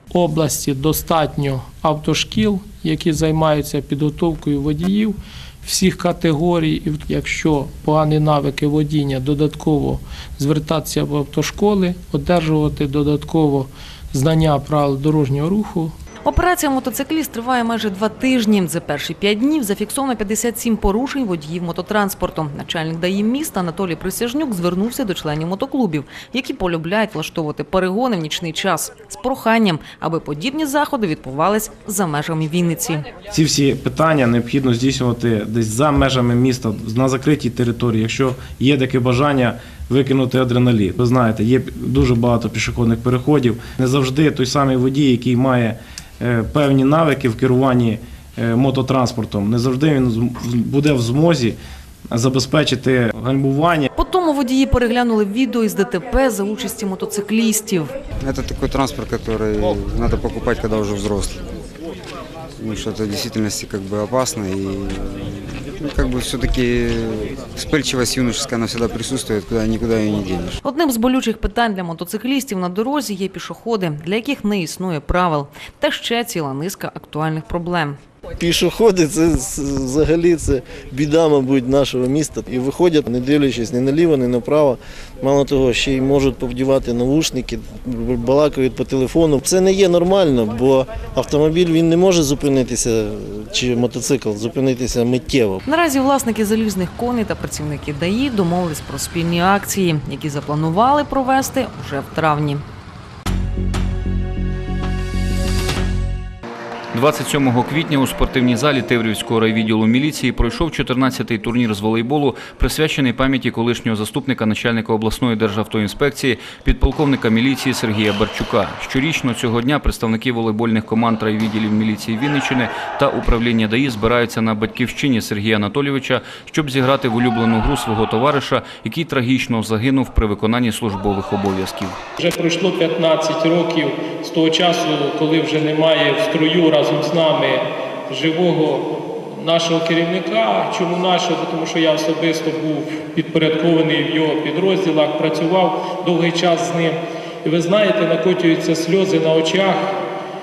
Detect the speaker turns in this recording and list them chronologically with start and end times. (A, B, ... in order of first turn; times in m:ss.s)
0:00.1-0:15.9 A
0:16.2-0:33.0 B
0:33.3-0:51.6 C
0:52.1-0:53.9 C
0:53.9-0:57.9 B
0:58.2-1:01.5 D
1:02.6-1:10.6 D
1:10.6-1:18.0 B
1:18.4-1:35.6 E
1:35.6-1:42.6 B
1:46.9-2:12.0 F
2:12.2-2:29.9 A